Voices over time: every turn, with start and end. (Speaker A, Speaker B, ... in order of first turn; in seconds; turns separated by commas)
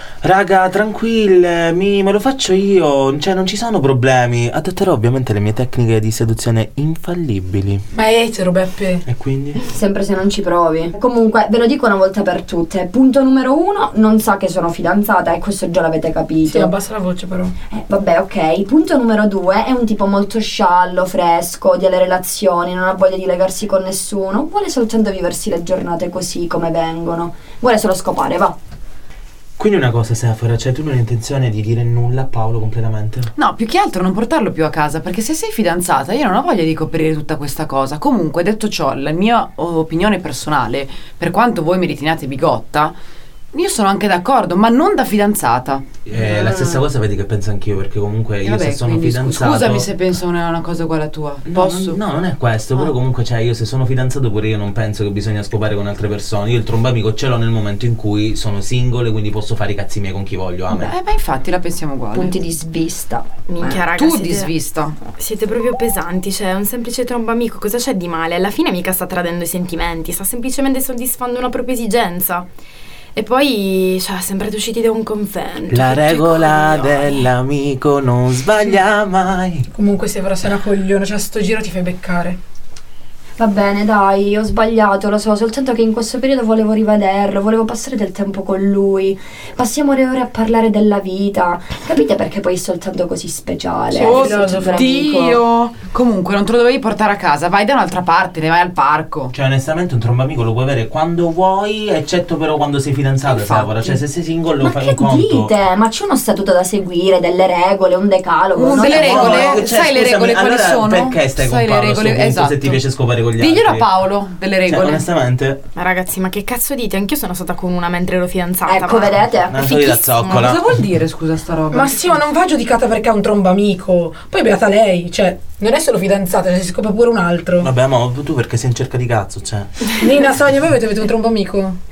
Speaker A: 0.2-7.8, Speaker B: 7.9-9.0, Speaker A: 9.1-9.6, Speaker C: 9.7-16.7, Speaker B: 16.4-17.5, Speaker C: 17.7-28.6, Speaker A: 29.6-33.3, Speaker D: 33.4-43.0, Speaker D: 43.5-45.8, Speaker A: 46.0-50.1, Speaker C: 46.2-46.9, Speaker D: 48.4-52.0, Speaker A: 51.5-61.0, Speaker D: 60.7-62.4, Speaker C: 62.1-63.8, Speaker E: 63.5-64.5, Speaker D: 63.9-65.0, Speaker E: 65.0-72.5, Speaker E: 73.1-77.2, Speaker A: 75.7-79.7, Speaker B: 79.7-82.4, Speaker C: 83.4-95.4, Speaker D: 93.9-99.3, Speaker B: 94.0-94.7, Speaker A: 99.3-105.5, Speaker D: 103.3-103.7, Speaker C: 104.6-109.6, Speaker D: 108.5-112.8, Speaker A: 108.8-113.9, Speaker D: 113.3-115.0, Speaker A: 114.7-115.6, Speaker E: 115.7-119.1, Speaker C: 118.7-120.1, Speaker A: 119.5-120.6, Speaker D: 120.2-122.2, Speaker B: 121.7-127.7, Speaker A: 127.6-129.7, Speaker B: 130.0-131.8